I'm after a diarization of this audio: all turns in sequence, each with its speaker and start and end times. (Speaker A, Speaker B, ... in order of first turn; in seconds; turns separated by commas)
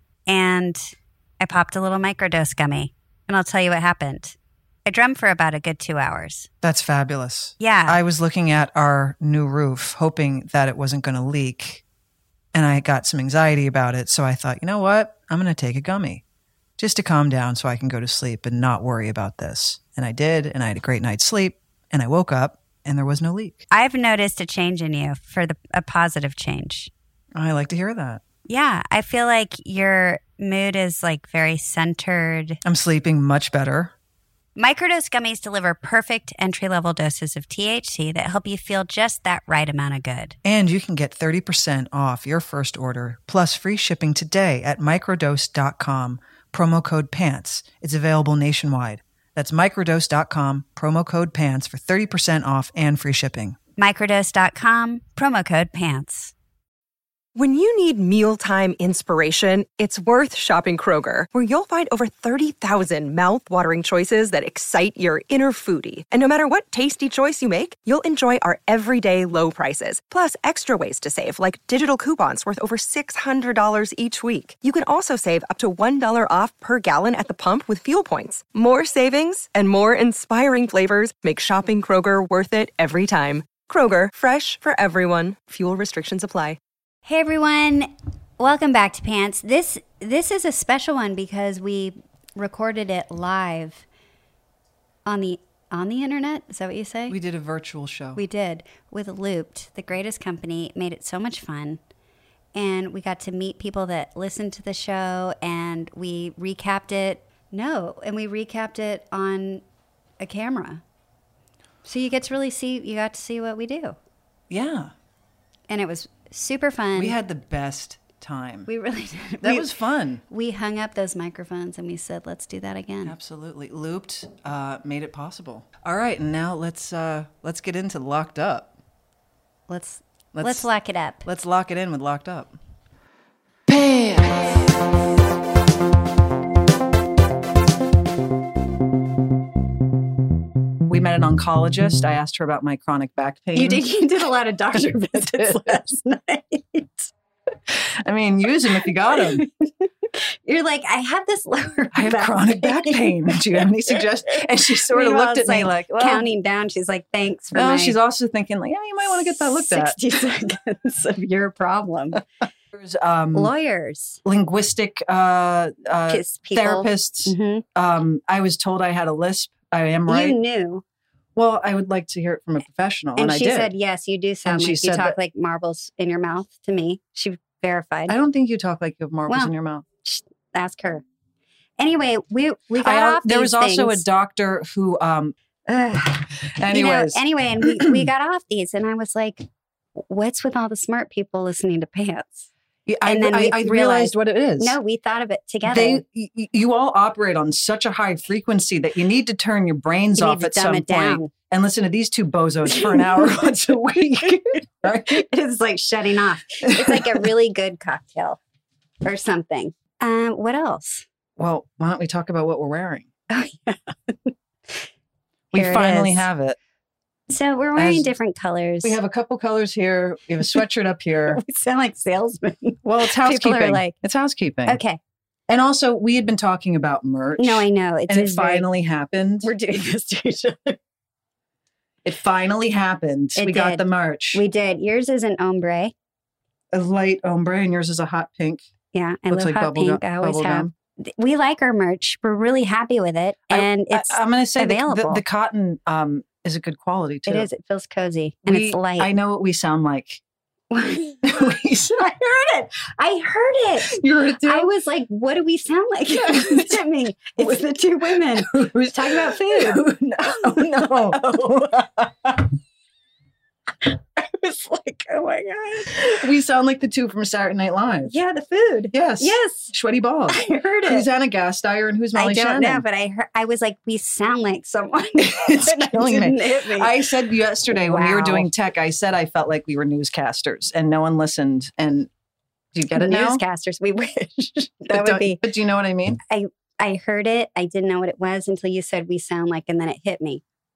Speaker A: 0.3-0.9, Speaker A: 1.4-6.5, Speaker B: 6.6-11.8, Speaker A: 7.6-8.0, Speaker B: 12.5-16.2, Speaker B: 16.8-23.7, Speaker A: 23.7-26.9, Speaker B: 27.4-28.2, Speaker A: 28.5-32.6, Speaker B: 32.6-33.9, Speaker A: 34.6-40.4, Speaker B: 40.4-53.6, Speaker A: 53.8-56.3, Speaker C: 57.4-86.6, Speaker A: 87.0-93.8, Speaker A: 95.1-97.2, Speaker B: 97.1-98.2, Speaker A: 98.2-101.8, Speaker A: 102.5-109.6, Speaker A: 110.2-110.8, Speaker A: 111.8-114.0, Speaker B: 114.5-114.9, Speaker A: 115.7-117.2, Speaker B: 117.0-118.7, Speaker A: 118.7-119.7, Speaker B: 119.4-120.2, Speaker A: 120.3-123.2, Speaker B: 123.0-128.7, Speaker A: 129.7-131.3, Speaker B: 130.3-130.7, Speaker B: 131.3-132.6, Speaker B: 133.7-134.6, Speaker B: 140.9-143.8, Speaker A: 143.6-147.1, Speaker B: 144.7-145.9, Speaker B: 147.7-149.4, Speaker A: 149.1-154.0, Speaker B: 151.9-156.3, Speaker A: 154.9-158.0, Speaker B: 157.5-160.0, Speaker A: 159.1-162.2, Speaker B: 162.7-163.5, Speaker A: 163.3-164.2, Speaker B: 164.2-170.4, Speaker A: 166.1-167.7, Speaker A: 170.1-170.8, Speaker B: 171.3-173.7, Speaker A: 173.2-178.2, Speaker B: 174.4-175.2, Speaker B: 178.1-179.8, Speaker A: 180.0-181.0, Speaker A: 181.8-184.0, Speaker B: 182.8-185.3, Speaker A: 185.7-192.5, Speaker B: 186.6-188.1, Speaker B: 192.9-194.8, Speaker A: 193.1-196.0, Speaker B: 195.7-205.3, Speaker A: 200.2-201.3, Speaker A: 202.7-203.4, Speaker A: 205.1-208.4, Speaker B: 206.6-207.2, Speaker A: 209.0-211.1, Speaker B: 211.4-213.1, Speaker A: 213.3-214.3, Speaker A: 215.5-216.3, Speaker B: 215.5-216.6, Speaker A: 217.3-219.0, Speaker B: 217.8-218.1, Speaker B: 218.8-221.4, Speaker A: 221.3-224.0, Speaker B: 222.8-224.8, Speaker A: 224.7-225.0, Speaker B: 225.5-229.5, Speaker A: 227.4-228.7, Speaker A: 229.4-230.8, Speaker B: 232.1-234.4, Speaker A: 233.4-235.9, Speaker B: 236.7-238.6, Speaker A: 238.9-245.2, Speaker B: 239.3-240.7, Speaker B: 243.5-247.5, Speaker A: 247.3-249.1, Speaker B: 248.5-250.2, Speaker A: 250.7-251.4, Speaker B: 251.2-252.2, Speaker A: 252.0-261.5, Speaker B: 253.8-254.7, Speaker B: 256.1-256.8, Speaker B: 257.4-262.5, Speaker A: 264.2-266.2, Speaker B: 265.9-268.1, Speaker A: 268.1-269.7, Speaker B: 268.9-272.8, Speaker A: 270.3-271.1, Speaker A: 272.1-277.1, Speaker B: 275.2-282.1, Speaker A: 277.7-278.5, Speaker B: 282.7-283.4, Speaker A: 282.9-285.4, Speaker B: 284.9-286.2, Speaker A: 286.3-290.4